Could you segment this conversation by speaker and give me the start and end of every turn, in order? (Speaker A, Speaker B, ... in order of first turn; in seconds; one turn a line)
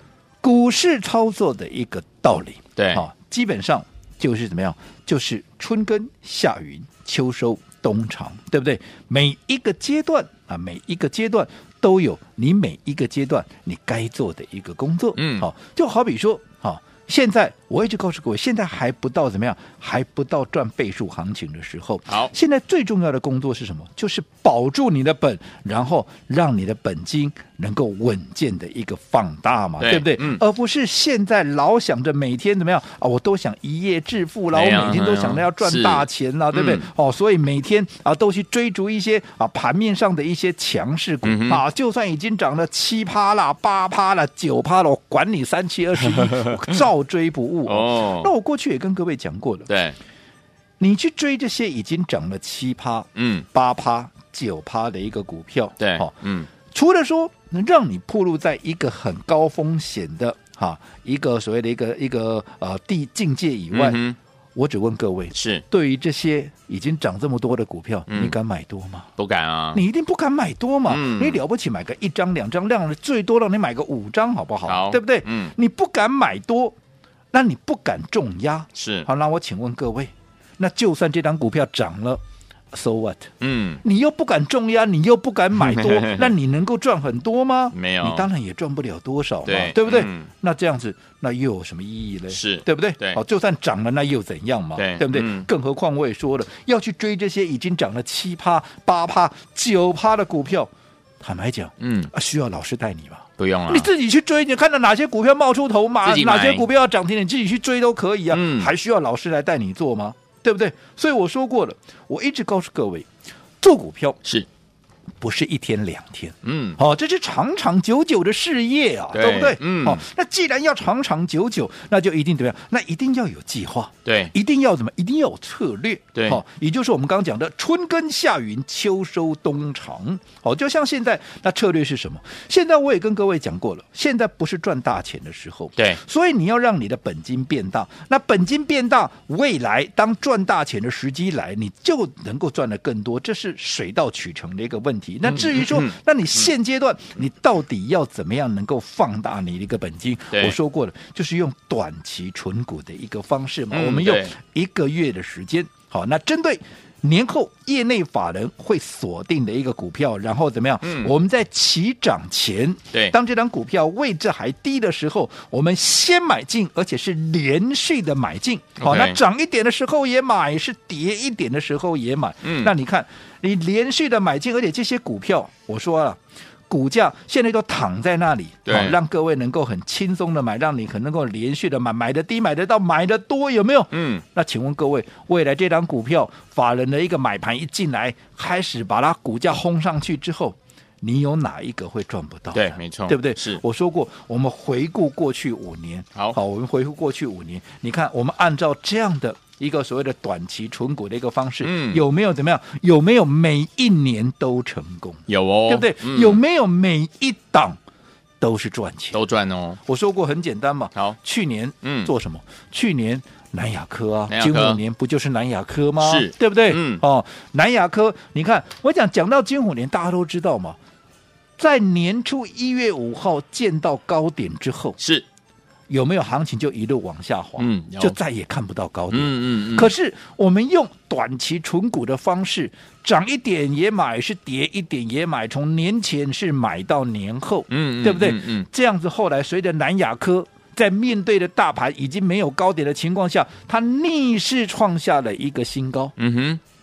Speaker A: 0.4-49.7
Speaker B: 2.8-3.0
Speaker B: 15.2-15.5
Speaker B: 29.8-30.4
Speaker B: 34.5-36.9
Speaker B: 41.2-41.6
Speaker B: 46.2-46.5
Speaker B: 47.7-48.3
Speaker B: 49.7-50.0
Speaker A: 50.8-64.0
Speaker B: 53.2-53.5
Speaker B: 55.8-56.5
Speaker B: 63.7-64.2
Speaker A: 64.5-69.1
Speaker B: 65.3-65.6
Speaker B: 68.1-68.3
Speaker B: 69.2-69.8
Speaker A: 69.7-76.8
Speaker B: 70.9-71.4
Speaker B: 74.7-75.5
Speaker A: 77.3-82.2
Speaker B: 78.8-79.1
Speaker A: 82.7-83.3
Speaker B: 83.4-83.8
Speaker A: 83.8-113.1
Speaker B: 85.6-86.3
Speaker B: 87.7-88.3
Speaker B: 89.5-90.3
Speaker B: 92.3-93.2
Speaker B: 94.8-95.5
Speaker B: 101.8-102.1
Speaker B: 103.4-103.9
Speaker B: 106.0-106.7
Speaker B: 108.3-108.7
Speaker A: 113.6-114.2
Speaker A: 115.2-207.8
Speaker B: 116.4-116.8
Speaker B: 119.1-120.0
Speaker B: 124.0-124.3
Speaker B: 126.2-126.4
Speaker B: 145.3-145.9
Speaker B: 150.3-150.6
Speaker B: 153.7-154.3
Speaker B: 160.8-161.1
Speaker B: 168.8-169.2
Speaker B: 172.4-172.7
Speaker B: 178.7-179.0
Speaker B: 183.9-184.2
Speaker B: 192.5-193.6
Speaker B: 201.6-202.0
Speaker B: 205.3-206.4
Speaker A: 208.4-209.2
Speaker B: 209.1-209.8
Speaker A: 209.9-220.8
Speaker B: 211.8-212.1
Speaker B: 214.3-214.8
Speaker B: 216.0-217.0
Speaker A: 221.6-225.0
Speaker B: 225.0-225.2
Speaker A: 225.9-246.1
Speaker B: 227.6-228.2
Speaker B: 229.1-229.9
Speaker B: 237.7-238.7
Speaker B: 246.2-246.6